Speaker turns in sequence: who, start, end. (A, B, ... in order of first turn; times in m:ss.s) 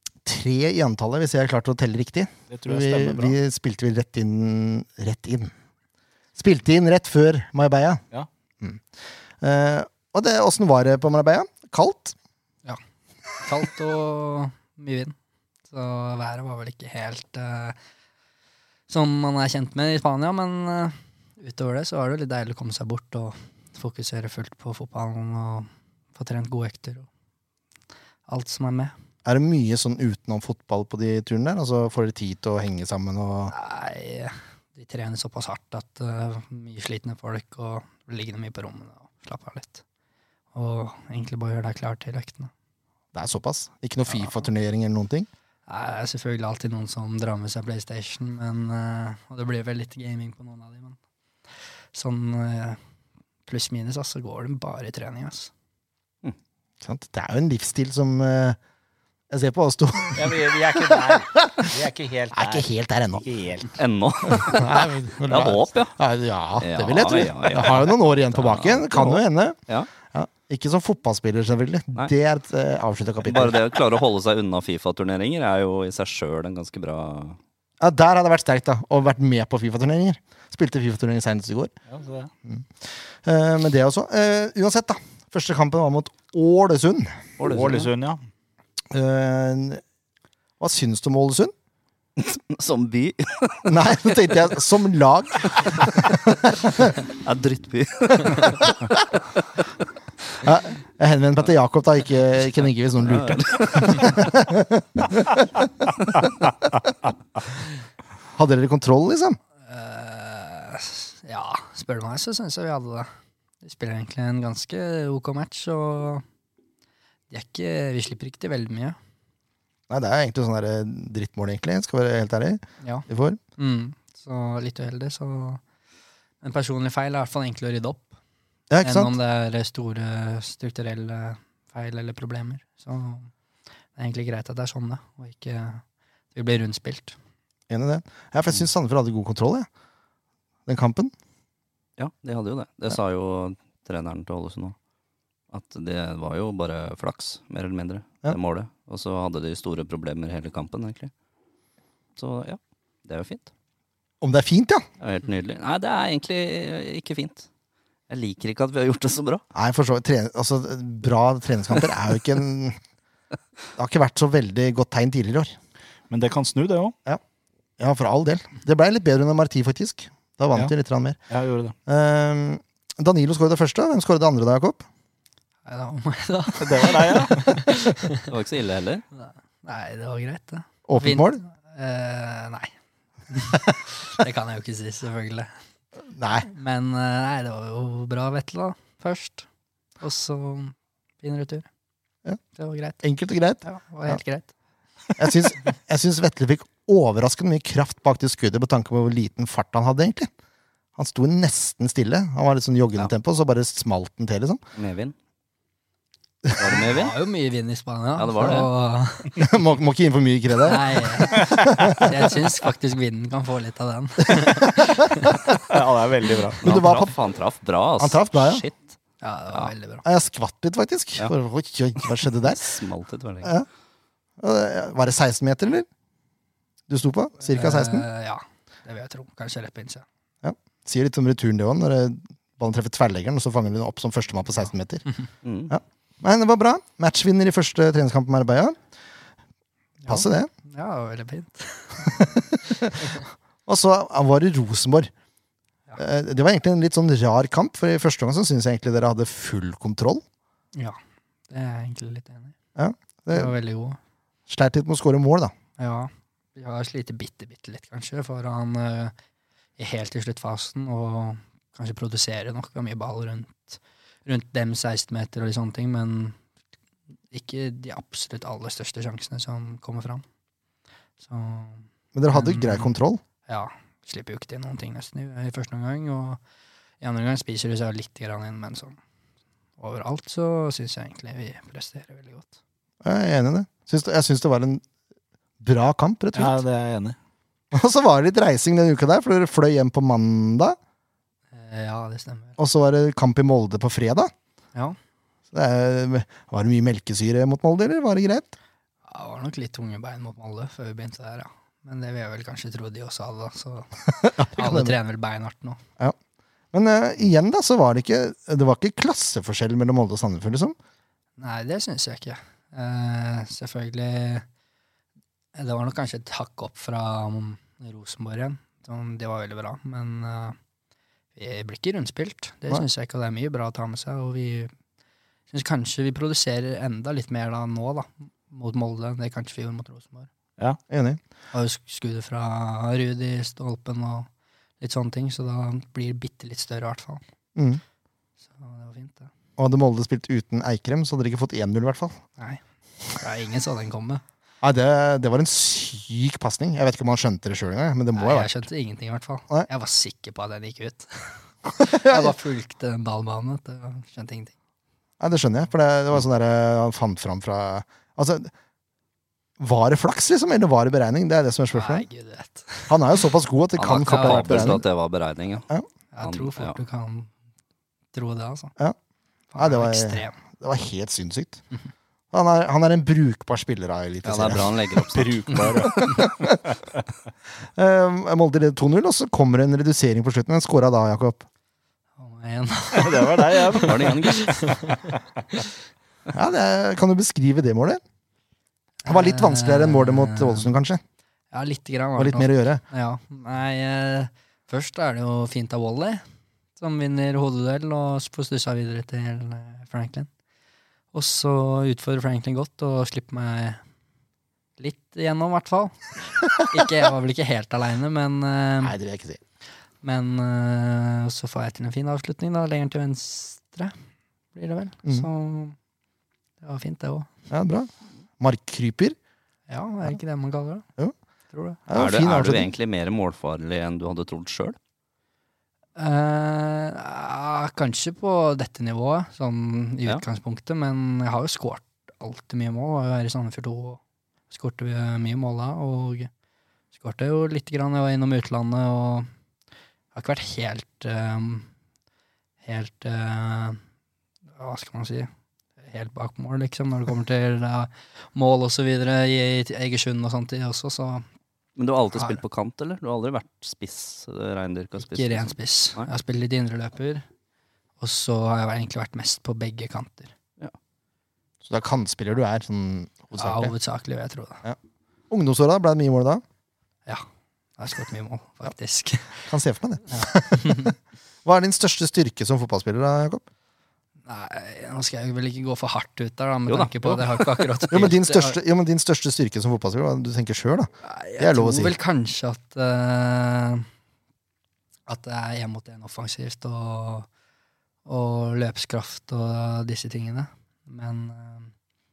0:00.2-0:05.5 A
0:02.5-0:03.4 B
0:06.4-0:08.0 A
0:09.4-0:12.2 A
0:13.4-0:15.2 C
0:15.7-0:17.8 C
0:18.9-0:27.1 C
0:28.3-0:28.9 C
0:29.2-0:33.5 A
0:33.5-0:39.8 C
0:40.5-0:42.5 C
0:43.1-0:45.3 A
0:45.7-0:51.0 C
0:51.9-0:52.8 C
0:53.5-0:55.5 C
0:56.8-0:58.6 A
0:59.3-1:01.7 A
1:00.2-1:03.8 B
1:02.3-1:03.2 A
1:03.7-1:05.9 D
1:04.4-1:09.6 A
1:06.6-1:09.9 D
1:10.1-1:13.6 A
1:13.2-1:17.4 D
1:17.8-1:21.7 A
1:21.9-1:22.3 B
1:22.4-1:27.2 A
1:27.4-1:27.9 D
1:27.4-1:28.2 B
1:28.9-1:29.8 A
1:30.6-1:31.5 A
1:32.2-1:33.9 D
1:33.7-1:36.9 A
1:37.2-1:39.0 D
1:40.4-1:45.7 A
1:43.0-1:44.3 D
1:48.4-1:49.4 A
1:49.7-1:53.1 C
1:53.6-1:56.2 C
1:57.3-1:59.0 C
1:59.9-2:03.4 A
2:03.6-2:05.6 C
2:06.4-2:08.1 C
2:08.7-2:09.1 A
2:08.8-2:13.3 C
2:14.0-2:15.8 C
2:16.3-2:17.2 C
2:17.7-2:19.7 A
2:20.7-2:21.1 A
2:22.0-2:24.8 D
2:25.5-2:31.1 D
2:32.2-2:33.5 D
2:34.2-2:34.8 A
2:35.0-2:37.5 D
2:38.1-2:39.4 D
2:39.6-2:42.8 A
2:43.8-2:45.6 A
2:46.1-2:47.0 B
2:47.8-2:51.2 A
2:51.3-2:51.8 B
2:51.9-2:54.9 A
2:55.7-2:58.3 C
2:56.6-2:57.6 B
2:58.2-2:59.0 D
2:59.2-3:02.7 C
3:00.9-3:01.4 A
3:03.3-3:05.5 C
3:06.1-3:06.5 A
3:06.5-3:09.5 C
3:10.0-3:11.7 C
3:12.6-3:13.0 C
3:13.0-3:14.2 A
3:13.6-3:14.5 C
3:15.2-3:20.3 A
3:21.0-3:24.6 A
3:24.8-3:25.1 D
3:26.6-3:27.2 D
3:26.6-3:29.3 C
3:28.2-3:28.7 D
3:29.4-3:32.2 A
3:30.6-3:35.4 C
3:34.3-3:35.5 A
3:35.6-3:36.6 B
3:36.6-3:37.1 A
3:36.6-3:38.9 D
3:38.0-3:38.6 A
3:39.2-3:40.0 C
3:40.0-3:42.6 A
3:42.4-3:43.5 D
3:44.4-3:45.9 A
3:46.9-3:48.1 A
3:47.4-3:50.0 C
3:50.4-3:55.0 A
3:55.4-3:55.7 D
3:55.7-3:58.8 A
4:00.0-4:03.1 C
4:00.1-4:00.5 A
4:02.2-4:05.1 A
4:06.0-4:10.2 A
4:11.5-4:12.6 C
4:12.8-4:13.5 A
4:13.3-4:14.0 C
4:14.5-4:15.5 A
4:15.8-4:19.1 C
4:19.8-4:26.4 C
4:27.3-4:30.2 C
4:31.2-4:32.9 C
4:32.1-4:33.2 A
4:33.5-4:36.4 C
4:37.0-4:39.0 C
4:39.8-4:42.6 C
4:43.0-4:44.8 A
4:45.6-4:46.6 A
4:46.4-4:47.2 B
4:47.7-4:50.8 A
4:51.5-4:52.6 C
4:52.6-4:54.3 A
4:55.5-4:58.6 A
4:59.1-5:05.8 C
5:04.2-5:05.0 A
5:06.7-5:10.8 A
5:11.4-5:14.5 C
5:15.6-5:20.6 C
5:21.4-5:24.7 C
5:25.5-5:30.3 C
5:30.9-5:31.2 A
5:31.5-5:34.3 C
5:34.8-5:37.2 C
5:37.6-5:37.8 A
5:38.5-5:39.3 C
5:39.6-5:42.2 A
5:43.1-5:44.2 C
5:44.6-5:48.6 A
5:48.1-5:54.5 C
5:51.8-5:52.4 A
5:55.2-5:58.5 A
5:59.6-6:02.1 A
6:01.7-6:03.0 C
6:02.9-6:04.8 A
6:03.8-6:05.7 D
6:03.9-6:04.8 C
6:06.1-6:07.3 C
6:06.2-6:06.8 D
6:08.1-6:08.7 C
6:09.5-6:10.4 C
6:09.6-6:11.6 A
6:12.3-6:14.8 A
6:14.2-6:15.9 D
6:15.1-6:16.6 B
6:15.8-6:16.6 A
6:17.8-6:21.5 A
6:22.2-6:25.1 C
6:22.9-6:24.4 B
6:23.8-6:24.7 D
6:26.3-6:28.0 A
6:29.0-6:30.7 C
6:29.1-6:31.0 A
6:31.5-6:36.2 C
6:32.2-6:32.8 A
6:36.8-6:40.3 C
6:41.1-6:43.8 C
6:44.8-6:49.0 C
6:48.8-6:49.4 A
6:50.0-6:53.9 C
6:54.6-6:55.8 C
6:56.6-6:57.3 C
6:57.5-6:59.2 A
6:59.7-7:00.8 C
7:01.5-7:01.8 C
7:01.9-7:02.7 A
7:01.9-7:04.8 D
7:06.0-7:16.3 C
7:17.0-7:19.3 C
7:20.1-7:21.7 C
7:22.6-7:23.8 C
7:24.6-7:25.3 C
7:25.8-7:31.3 C
7:31.8-7:36.1 D
7:32.1-7:32.4 C
7:35.0-7:37.2 C
7:38.0-7:40.3 C
7:41.6-7:43.8 A
7:43.4-7:44.6 C
7:45.3-7:46.4 A
7:47.8-7:49.5 C
7:49.5-7:50.9 A
7:50.1-7:50.9 C
7:51.4-7:53.4 A
7:54.2-7:58.6 C
7:56.7-7:57.8 D
7:57.9-8:02.0 A
8:01.0-8:03.9 C
8:05.1-8:07.3 C
8:08.1-8:11.7 C